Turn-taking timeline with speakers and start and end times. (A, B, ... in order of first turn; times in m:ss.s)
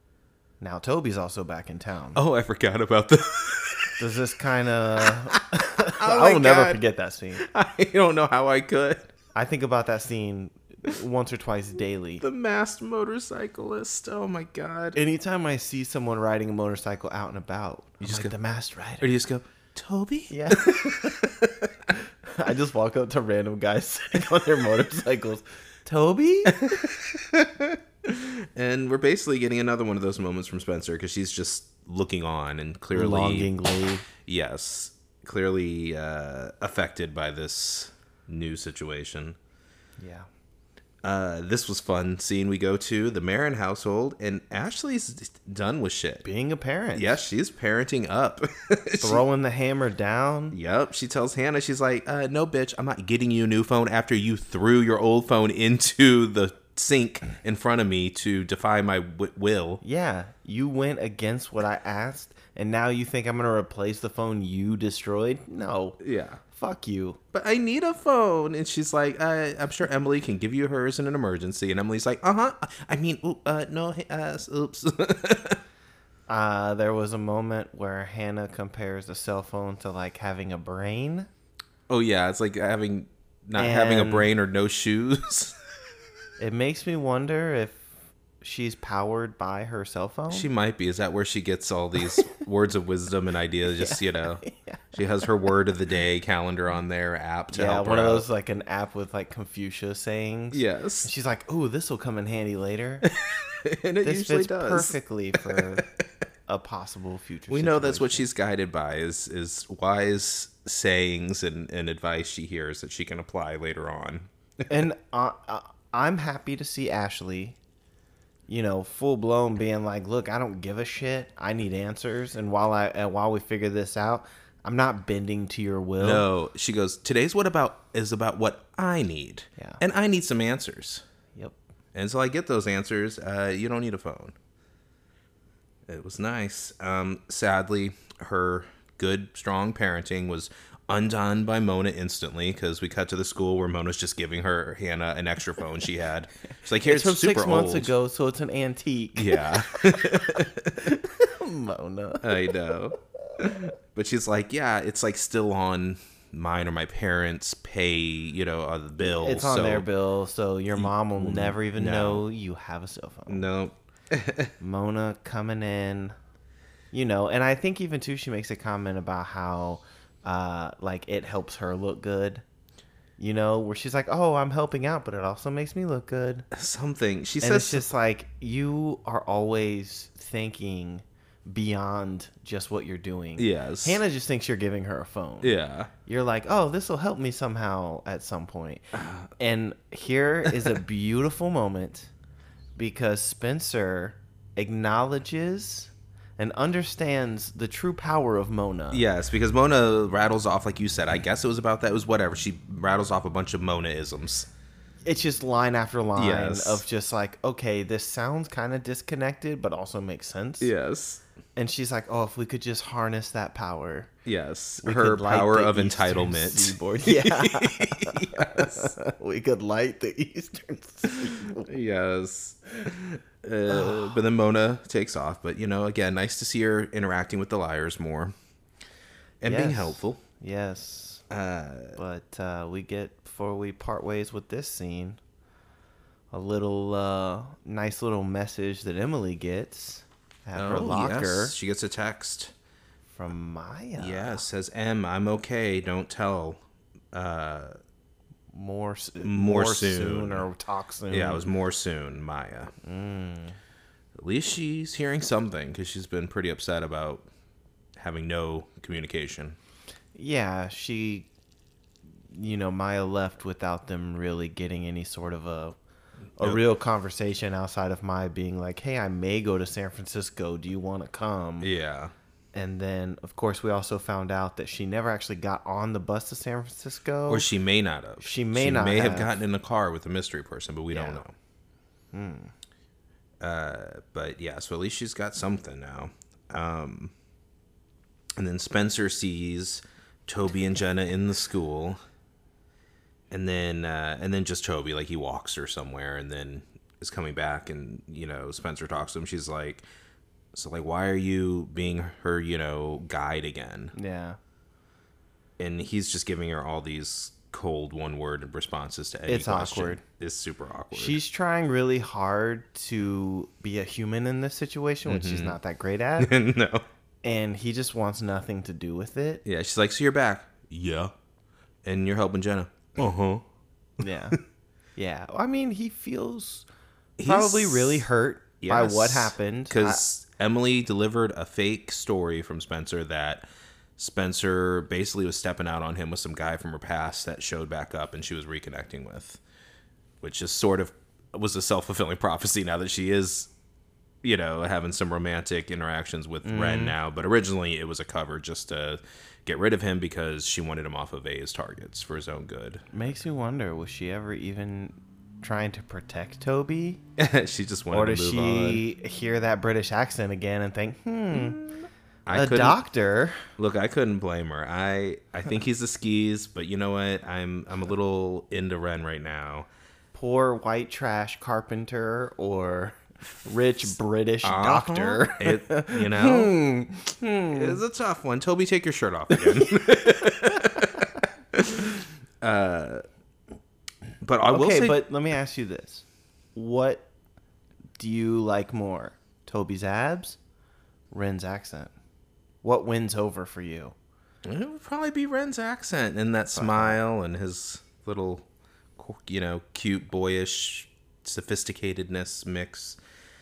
0:00.6-0:02.2 A
0:02.2-0:04.0 B
0:04.0-0:07.4 A
0:05.0-0:06.8 B
0:07.4-0:09.1 B
0:09.4-0:12.2 A
0:12.2-0:15.0 B
0:15.0-0:19.1 A
0:18.0-0:18.3 B
0:19.0-0:21.7 B
0:20.3-0:21.3 A
0:21.9-0:26.8 A
0:26.5-0:33.5 B
0:32.9-0:34.1 A
0:34.2-0:39.4 B
0:40.0-0:40.3 A
0:41.0-0:46.3 B
0:46.2-0:47.2 A
0:46.9-0:49.2 B
0:49.0-0:50.6 A
0:50.5-0:59.8 B
0:59.8-1:06.0 A
1:06.0-1:06.4 B
1:06.5-1:07.2 A
1:07.3-1:15.6 B
1:16.3-1:21.3 A
1:21.9-1:25.6 B
1:23.6-1:24.3 A
1:26.4-1:30.5 A
1:30.3-1:38.3 B
1:33.7-1:34.8 A
1:37.5-1:43.0 A
1:40.5-1:41.1 B
1:43.0-1:45.8 B
1:44.0-1:45.9 A
1:46.5-1:48.3 A
1:47.5-1:54.3 B
1:54.7-1:57.6 A
1:58.5-2:06.3 A
2:06.0-2:11.0 B
2:11.9-2:14.3 B
2:15.9-2:27.9 B
2:26.8-2:32.6 A
2:29.2-2:31.0 B
2:32.2-2:39.9 B
2:39.0-2:43.4 A
2:40.7-2:42.2 B
2:43.3-2:44.5 B
2:44.6-2:46.2 A
2:46.9-2:52.4 A
2:53.2-2:56.5 A
2:56.5-2:57.9 B
2:57.4-3:08.8 A
3:03.4-3:04.0 B
3:05.4-3:05.9 B
3:09.0-3:09.3 B
3:09.4-3:12.1 A
3:12.8-3:19.0 A
3:18.9-3:24.5 B
3:25.0-3:30.7 A
3:26.2-3:26.8 B
3:30.6-3:31.2 B
3:31.6-3:34.1 A
3:34.3-3:39.1 B
3:34.8-3:41.7 A
3:41.0-3:48.3 B
3:43.7-3:44.2 A
3:49.4-3:50.2 B
3:49.4-3:51.2 A
3:51.3-3:52.0 B
3:52.0-3:55.2 A
3:56.3-4:01.6 A
4:00.6-4:02.5 B
4:03.1-4:04.4 A
4:04.0-4:06.6 B
4:07.1-4:07.8 B
4:08.5-4:11.4 A
4:09.2-4:10.5 B
4:11.1-4:12.7 B
4:12.8-4:13.6 A
4:14.2-4:17.3 B
4:18.0-4:19.6 B
4:20.2-4:21.3 A
4:22.3-4:25.8 A
4:26.4-4:31.7 A
4:31.6-4:32.1 B
4:32.5-4:37.5 A
4:37.3-4:41.3 B
4:38.2-4:39.4 A
4:40.9-4:41.2 A
4:42.1-4:42.5 A
4:43.4-4:47.1 B
4:48.4-4:52.0 B
4:53.3-4:59.8 B
5:00.5-5:03.9 B
5:03.9-5:04.4 A
5:05.6-5:11.2 B
5:09.3-5:10.0 A
5:10.9-5:16.3 A
5:15.1-5:15.6 B
5:16.2-5:16.8 B
5:17.2-5:19.4 A
5:19.4-5:21.1 B
5:21.8-5:23.4 B
5:24.0-5:24.4 A
5:25.0-5:26.7 A
5:27.2-5:28.1 B
5:27.2-5:30.0 A
5:28.6-5:33.4 B
5:34.0-5:39.4 B
5:40.2-5:43.5 B
5:44.2-5:52.9 B
5:46.4-5:47.0 A
5:52.9-5:57.0 A
5:57.2-5:58.8 B
5:57.9-6:03.4 A
6:02.3-6:02.8 B
6:03.6-6:09.7 B
6:10.1-6:17.8 A
6:14.4-6:16.6 B
6:17.5-6:23.0 B
6:19.3-6:19.7 A
6:24.2-6:25.0 B
6:24.5-6:26.0 A
6:26.6-6:27.1 A
6:28.0-6:30.4 A
6:31.1-6:31.9 A
6:32.6-6:34.0 A
6:34.4-6:38.5 B
6:36.5-6:37.0 A
6:39.0-6:43.0 B